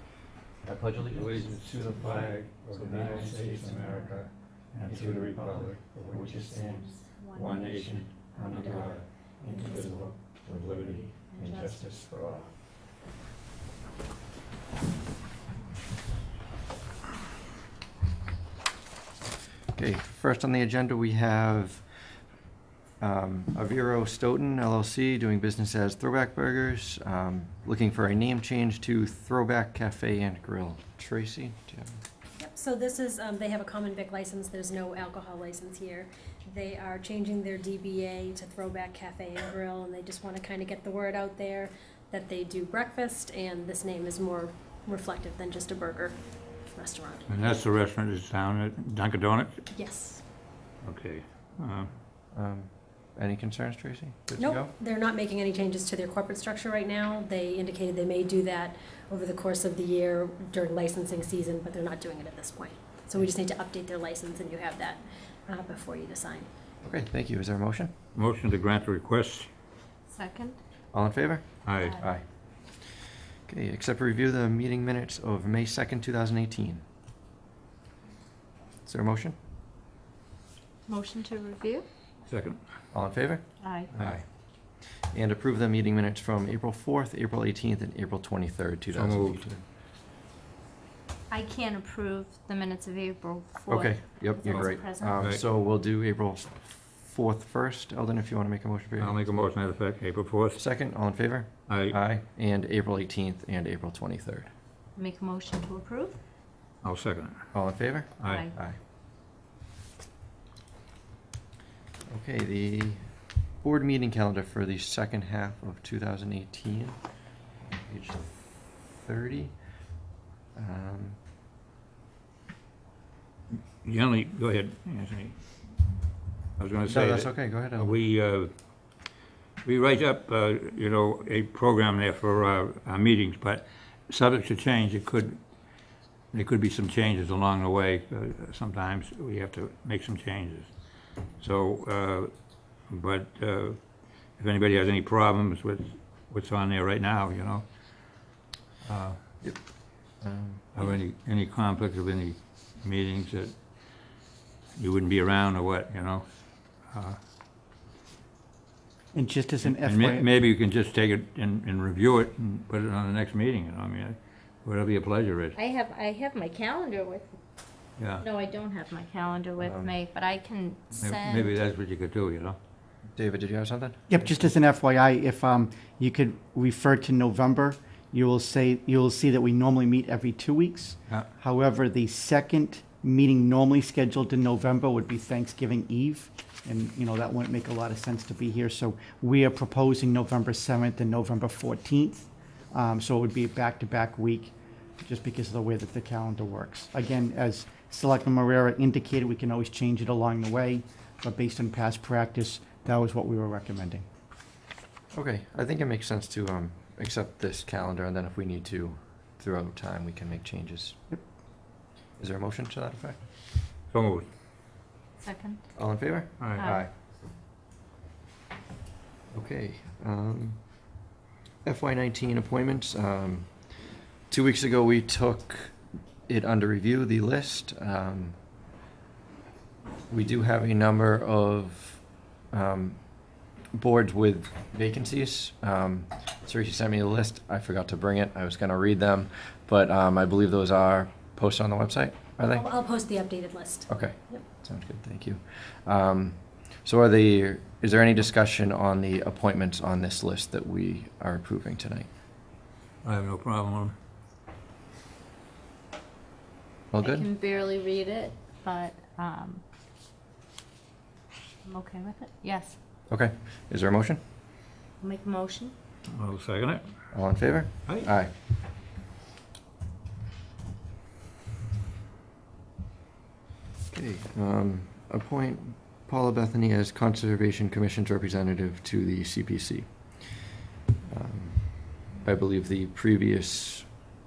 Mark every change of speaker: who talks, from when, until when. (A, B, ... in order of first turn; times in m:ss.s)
0:00.7-0:03.6 A
0:01.0-0:06.7 B
0:03.5-0:04.0 C
0:04.9-0:05.3 C
0:05.2-0:05.6 A
0:06.1-0:06.7 C
0:06.6-0:07.8 D
0:07.4-0:09.0 B
0:08.4-0:08.9 A
0:08.5-0:08.8 D
0:09.5-0:09.9 D
0:09.8-0:10.1 C
0:10.6-0:11.1 B
0:10.6-0:10.9 C
0:11.3-0:11.8 D
0:11.8-0:12.4 C
0:19.7-0:21.8 A
0:23.0-0:32.0 A
0:32.4-0:46.2 E
0:46.7-0:47.2 E
0:47.3-0:49.6 B
0:49.7-0:50.2 E
0:50.8-0:51.9 B
0:52.3-0:54.7 A
0:54.4-1:06.5 E
1:06.8-1:07.9 A
1:08.1-1:09.5 B
1:10.1-1:10.6 D
1:10.9-1:12.2 A
1:11.6-1:12.0 B
1:13.5-1:16.8 A
1:18.8-1:19.4 A
1:20.9-1:21.8 D
1:22.3-1:22.6 B
1:22.9-1:24.2 A
1:23.6-1:23.9 D
1:25.1-1:29.6 A
1:28.9-1:29.5 B
1:31.3-1:35.2 D
1:33.7-1:39.2 A
1:34.4-1:35.4 B
1:39.0-1:40.6 B
1:40.6-1:44.5 A
1:41.7-1:42.0 B
1:45.0-1:46.2 D
1:46.8-1:47.4 B
1:47.5-1:48.8 A
1:48.2-1:48.5 B
1:48.2-1:48.5 D
1:52.1-1:53.0 A
1:53.6-1:57.0 A
1:57.7-1:58.3 A
1:59.0-1:59.5 A
2:00.5-2:01.2 A
2:03.8-2:05.3 B
2:06.6-2:08.5 B
2:06.8-2:08.0 A
2:09.6-2:15.4 B
2:16.3-2:20.7 B
2:21.4-2:22.3 B
2:22.8-2:23.8 B
2:24.4-2:27.6 B
2:28.8-2:29.2 B
2:30.2-2:30.8 A
2:30.7-2:33.5 B
2:34.8-2:36.2 B
2:36.9-2:37.2 B
2:39.1-2:40.3 C
2:39.6-2:45.6 B
2:45.5-2:47.4 D
2:48.0-2:48.2 B
2:48.2-2:51.6 D
2:49.6-2:49.9 A
2:50.9-2:52.6 B
2:53.2-2:54.0 A
2:54.1-3:24.0 C
3:25.1-3:31.0 A
3:32.2-3:33.2 A
3:33.9-3:34.3 B
3:35.2-3:35.6 D
3:35.7-3:36.9 A
3:36.4-3:36.7 B
3:36.5-3:36.8 D
3:39.3-3:40.6 A
3:41.6-3:43.5 A
3:44.3-3:45.7 A
3:46.3-3:48.4 A
3:50.1-3:52.0 A
3:52.5-3:53.0 A
3:53.7-4:02.6 A
4:02.5-4:04.4 E
4:03.9-4:12.1 A
4:13.0-4:13.9 B
4:16.9-4:17.3 A
4:17.0-4:19.6 D
4:21.6-4:22.8 D
4:23.1-4:24.2 A
4:25.0-4:25.7 D
4:26.1-4:26.8 B
4:27.1-4:28.3 A
4:33.9-4:39.9 A
4:41.1-4:43.9 A